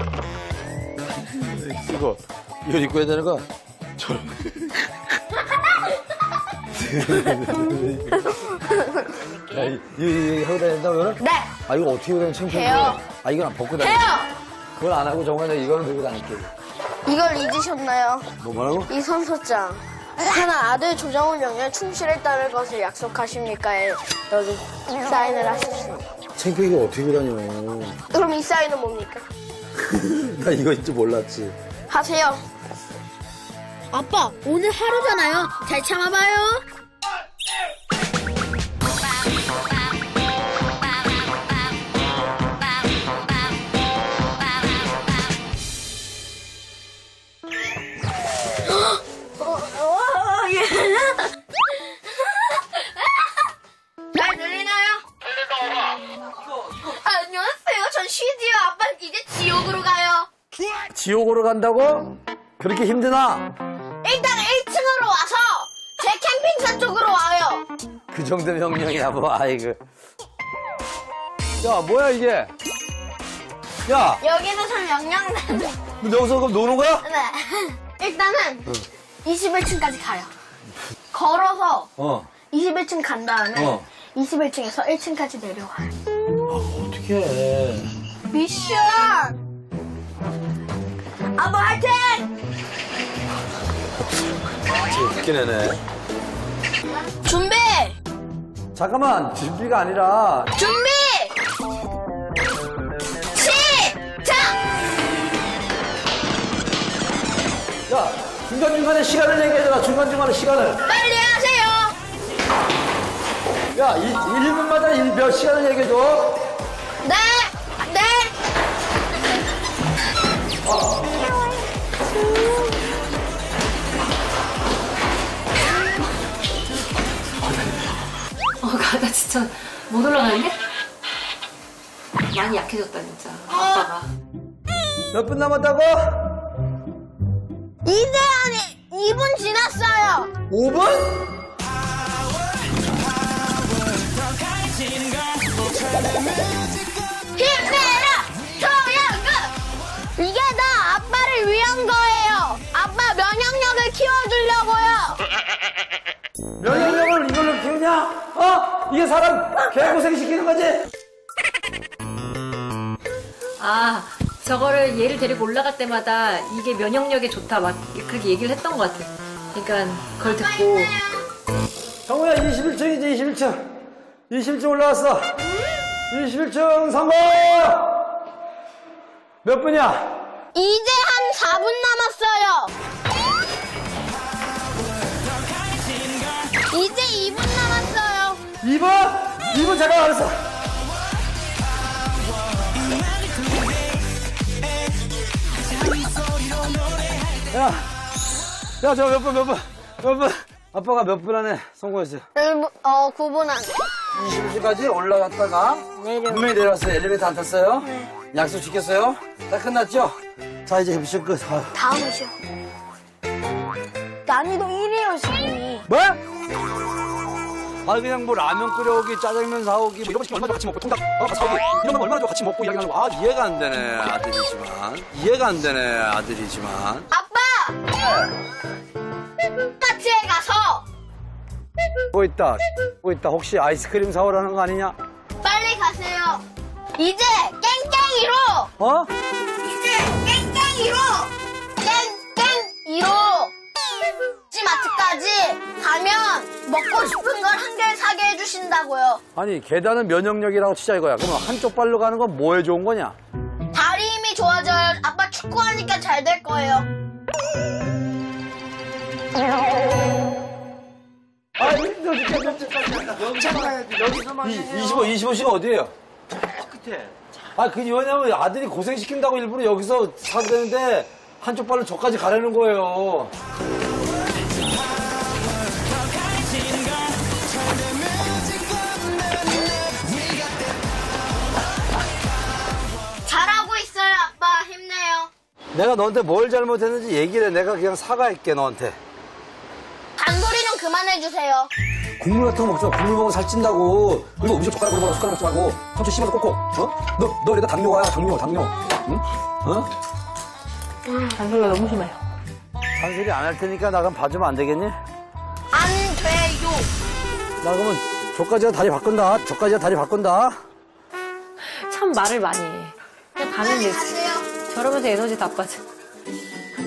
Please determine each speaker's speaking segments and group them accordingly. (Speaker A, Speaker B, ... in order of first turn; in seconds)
Speaker A: 1.2-4.9, 6.7-8.3, 9.4-14.1, 14.8-16.5, 18.4-18.9, 26.4-28.0, 29.8-31.6, 60.9-63.5, 68.1-69.8, 71.6-72.5, 73.8-74.2, 76.0-77.0, 82.0-82.3, 83.5-83.9, 86.5-87.9, 94.8-95.8, 98.7-100.5, 107.9-110.8, 113.7-116.4, 120.6-121.1, 127.4-127.9, 135.1-136.3, 140.5-141.2, 156.6-160.9, 172.1-173.7, 174.3-175.4, 176.1-178.0, 179.4-180.2, 188.6-190.4, 197.5-197.9, 198.8-202.3, 204.1-211.8, 215.9-216.2, 217.8-227.1, 228.0-228.3, 232.1-234.9, 238.8-239.1, 249.3-253.2, 261.6-265.9, 267.5-273.3, 285.7-289.0, 292.2-299.9, 303.0-305.0, 307.6-310.6
Speaker B: 8.5-9.1, 11.2-11.5, 12.5-13.0, 13.8-14.3, 17.1-18.3, 18.9-26.1, 28.1-29.2, 31.9-32.4, 48.9-51.3, 52.3-53.2, 54.1-55.0, 56.7-60.3, 64.0-67.6, 74.2-75.8, 77.0-78.7, 79.2-80.3, 81.1-81.9, 82.5-85.9, 88.3-89.4, 91.4-92.2, 97.2-97.9, 100.6-101.3, 103.3-104.5, 110.9-111.9, 117.0-118.3, 133.5-133.8, 137.8-140.3, 147.3-149.5, 150.2-155.2, 170.2-171.3, 180.5-182.7, 186.7-188.4, 202.3-203.9, 206.0-206.5, 207.8-208.1, 211.7-212.3, 214.2-215.9, 227.1-227.8, 229.8-230.8, 235.4-236.4, 236.9-238.7, 239.6-241.3, 241.8-243.5, 244.5-249.2, 253.7-256.9, 283.2-285.3, 290.2-291.7, 301.1-301.4, 305.7-306.9, 313.6-314.5
Speaker C: 33.9-36.6
Speaker D: 128.6-130.6, 132.3-134.1, 163.6-170.9, 301.3-302.2, 311.6-315.8